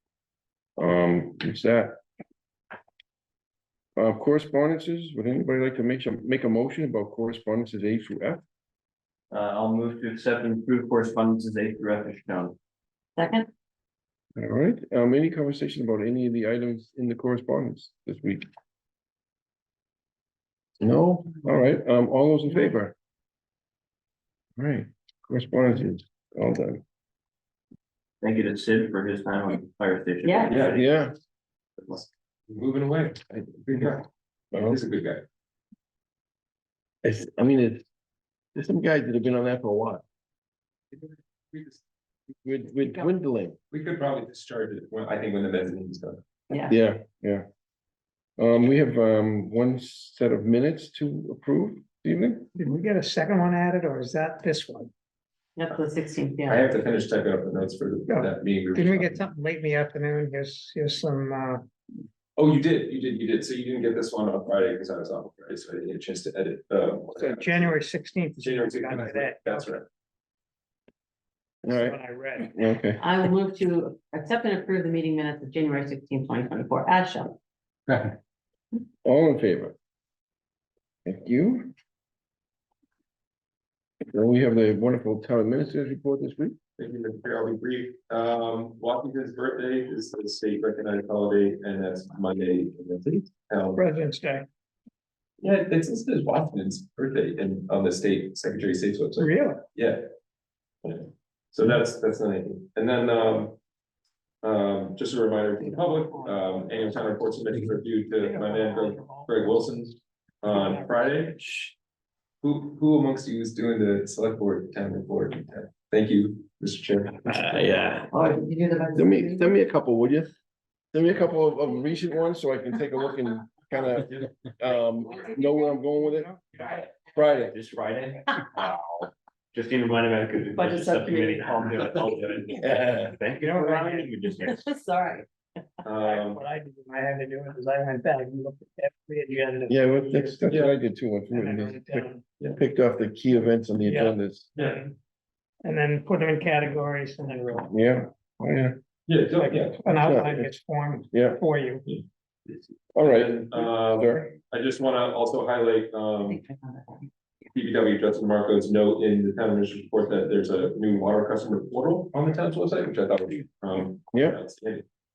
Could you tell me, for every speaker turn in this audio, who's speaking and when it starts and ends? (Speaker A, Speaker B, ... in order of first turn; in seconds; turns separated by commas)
Speaker A: 0.8-2.0, Speaker A: 4.0-8.4, Speaker B: 9.3-12.6, Speaker C: 13.2-13.5, Speaker A: 14.3-18.5, Speaker A: 20.8-22.9, Speaker A: 24.6-26.8, Speaker B: 28.2-30.9, Speaker D: 30.5-30.8, Speaker A: 30.7-31.1, Speaker B: 31.8-32.0, Speaker D: 32.5-35.2, Speaker A: 34.5-34.8, Speaker A: 37.0-37.9, Speaker A: 38.5-40.0, Speaker D: 40.9-41.8, Speaker A: 42.3-43.6, Speaker D: 43.7-46.2, Speaker C: 46.5-46.7, Speaker A: 46.7-47.5, Speaker A: 48.4-52.5, Speaker E: 52.5-54.9, Speaker C: 55.5-56.7, Speaker D: 56.5-59.3, Speaker E: 58.1-61.6, Speaker D: 62.4-67.8, Speaker E: 67.2-69.7, Speaker D: 68.4-69.8, Speaker A: 71.6-73.0, Speaker E: 71.7-72.5, Speaker C: 73.0-77.4, Speaker B: 77.9-78.2, Speaker A: 79.0-79.8, Speaker A: 81.0-81.7, Speaker A: 84.1-86.5, Speaker D: 86.8-93.8, Speaker E: 93.7-94.5, Speaker D: 95.4-100.0, Speaker E: 99.2-99.6, Speaker D: 100.8-103.6, Speaker D: 104.4-111.4, Speaker E: 108.2-109.6, Speaker E: 110.4-111.3, Speaker D: 112.4-117.5, Speaker A: 117.4-118.1, Speaker C: 117.6-119.5, Speaker A: 118.9-120.3, Speaker A: 120.9-126.3, Speaker B: 123.7-125.2, Speaker E: 125.4-126.9, Speaker B: 126.7-128.2, Speaker A: 127.1-127.5, Speaker B: 129.5-134.7, Speaker C: 130.6-131.2, Speaker A: 132.6-133.1, Speaker E: 133.4-134.2, Speaker C: 134.5-135.2, Speaker D: 135.8-136.4, Speaker E: 135.9-140.6, Speaker A: 139.7-144.5, Speaker D: 140.5-140.7, Speaker E: 141.2-142.2, Speaker E: 143.8-144.9, Speaker E: 145.6-147.7, Speaker A: 147.7-148.8, Speaker D: 149.1-149.8, Speaker E: 149.3-151.8, Speaker A: 149.9-150.5, Speaker A: 151.1-151.4, Speaker A: 152.9-154.3, Speaker D: 153.0-156.4, Speaker C: 156.3-157.1, Speaker D: 157.5-164.8, Speaker A: 164.1-164.4